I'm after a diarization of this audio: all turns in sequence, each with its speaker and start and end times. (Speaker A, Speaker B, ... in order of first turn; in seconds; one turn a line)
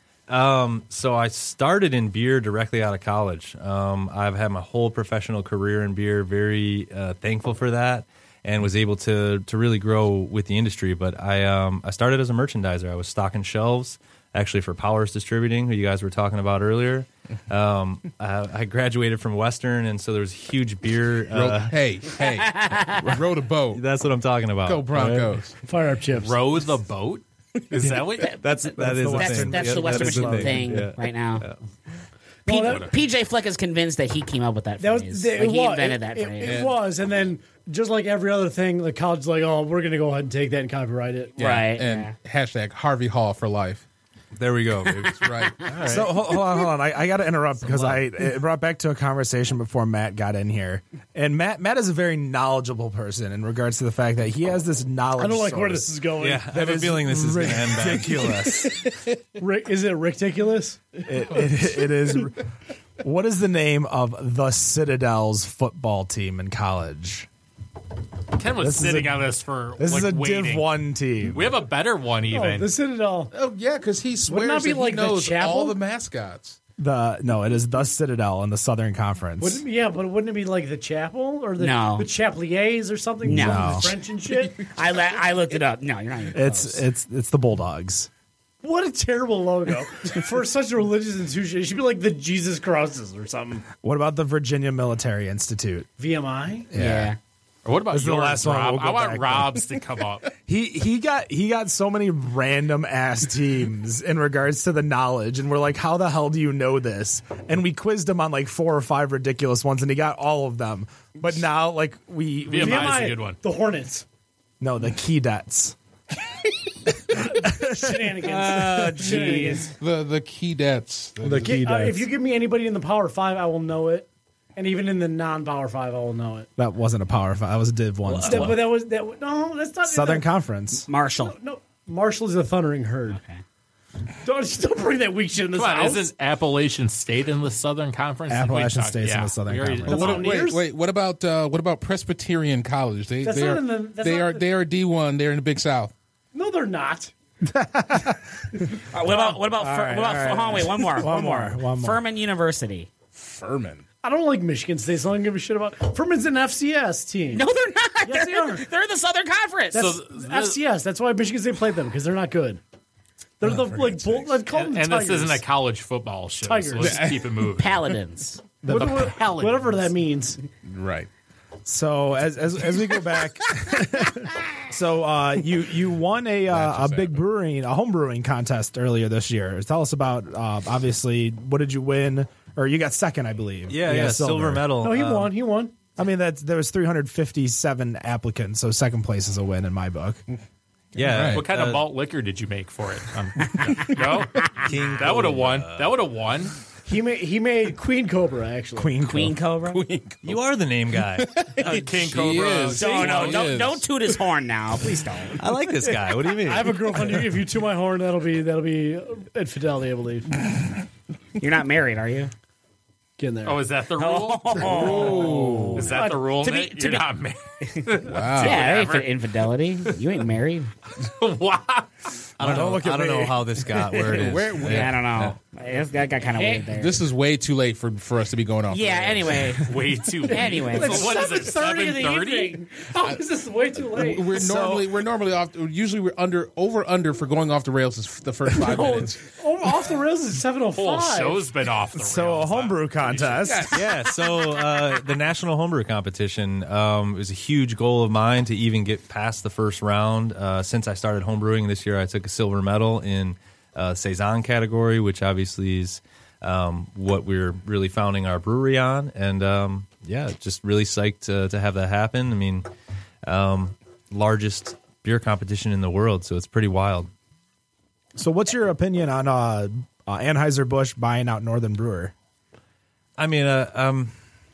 Speaker A: 0.3-21.8
Speaker B: 21.3-23.8
Speaker C: 22.2-23.2
Speaker A: 23.7-25.4
Speaker B: 24.6-25.6
Speaker D: 25.6-26.4
Speaker E: 26.1-28.4
Speaker C: 28.2-31.4
Speaker A: 28.4-31.6
Speaker F: 28.7-30.8
Speaker D: 32.5-32.9
Speaker C: 32.5-36.6
Speaker D: 34.8-41.4
Speaker B: 36.4-36.8
Speaker B: 41.4-43.9
Speaker C: 41.4-42.1
Speaker A: 44.4-46.2
Speaker B: 44.8-45.8
Speaker F: 45.9-55.9
Speaker A: 47.6-48.0
Speaker D: 55.2-60.9
Speaker A: 56.2-58.7
Speaker F: 57.1-58.8
Speaker F: 61.0-62.4
Speaker F: 63.0-67.3
Speaker E: 68.3-72.7
Speaker F: 68.5-69.3
Speaker F: 69.8-71.6
Speaker D: 72.3-73.3
Speaker B: 73.3-76.6
Speaker D: 74.3-75.8
Speaker F: 76.8-79.6
Speaker D: 79.4-84.7
Speaker C: 81.6-82.1
Speaker C: 83.2-83.9
Speaker F: 83.2-83.9
Speaker C: 84.5-86.8
Speaker F: 86.3-88.1
Speaker D: 88.6-93.7
Speaker F: 93.8-95.9
Speaker D: 96.0-96.7
Speaker F: 96.7-97.2
Speaker C: 96.8-97.2
Speaker E: 97.7-100.3
Speaker F: 97.9-99.7
Speaker F: 100.5-113.1
Speaker E: 112.5-113.4
Speaker D: 112.6-114.1
Speaker F: 114.6-115.8
Speaker F: 117.1-119.7
Speaker D: 117.1-119.7
Speaker C: 118.3-119.7
Speaker B: 119.8-121.7
Speaker F: 121.2-122.0
Speaker D: 121.4-126.5
Speaker F: 126.6-128.7
Speaker D: 128.1-130.3
Speaker F: 129.9-130.9
Speaker C: 130.9-131.3
Speaker D: 131.2-133.2
Speaker C: 133.1-133.4
Speaker D: 134.2-136.1
Speaker E: 135.5-140.3
Speaker F: 138.3-140.2
Speaker D: 139.9-140.6
Speaker B: 139.9-145.9
Speaker D: 143.2-144.4
Speaker D: 146.3-147.1
Speaker F: 147.4-152.1
Speaker C: 148.9-152.9
Speaker B: 153.2-153.8
Speaker D: 154.0-157.5
Speaker C: 157.3-159.9
Speaker D: 158.0-158.7
Speaker D: 159.7-162.6
Speaker E: 159.7-160.6
Speaker D: 163.4-165.4
Speaker B: 163.4-164.4
Speaker E: 164.5-167.8
Speaker D: 166.4-167.1
Speaker B: 166.8-167.3
Speaker C: 167.6-168.5
Speaker E: 168.7-169.8
Speaker D: 168.7-170.4
Speaker B: 170.6-171.1
Speaker F: 171.7-184.7
Speaker B: 176.5-177.2
Speaker A: 183.7-185.3
Speaker D: 184.8-185.8
Speaker F: 186.0-190.2
Speaker A: 190.9-191.9
Speaker B: 191.0-191.5
Speaker E: 191.3-196.6
Speaker C: 194.0-194.7
Speaker A: 194.5-195.9
Speaker D: 196.8-199.1
Speaker F: 198.8-199.4
Speaker C: 199.0-200.1
Speaker B: 199.7-200.4
Speaker A: 200.2-201.5
Speaker B: 201.0-203.9
Speaker E: 201.6-203.5
Speaker C: 202.8-205.4
Speaker D: 202.8-203.3
Speaker A: 205.4-207.0
Speaker D: 205.8-210.4
Speaker C: 211.4-212.3
Speaker D: 213.2-213.6
Speaker E: 213.4-219.9
Speaker C: 214.0-217.1
Speaker B: 214.7-215.9
Speaker D: 214.8-215.3
Speaker D: 215.8-216.2
Speaker C: 217.7-220.7
Speaker B: 218.0-218.7
Speaker E: 221.0-221.9
Speaker A: 222.4-225.0
Speaker F: 222.4-223.4
Speaker B: 224.1-225.3
Speaker C: 224.6-227.0
Speaker D: 226.4-226.6
Speaker B: 226.6-229.6
Speaker C: 228.7-231.3
Speaker E: 229.6-232.6
Speaker D: 230.3-234.4
Speaker B: 233.9-239.3
Speaker F: 234.3-234.9
Speaker D: 238.6-241.5
Speaker E: 240.8-243.7
Speaker F: 242.0-243.8
Speaker B: 243.3-243.9
Speaker A: 243.7-262.7
Speaker A: 263.2-267.1
Speaker F: 268.2-272.1
Speaker A: 273.2-274.1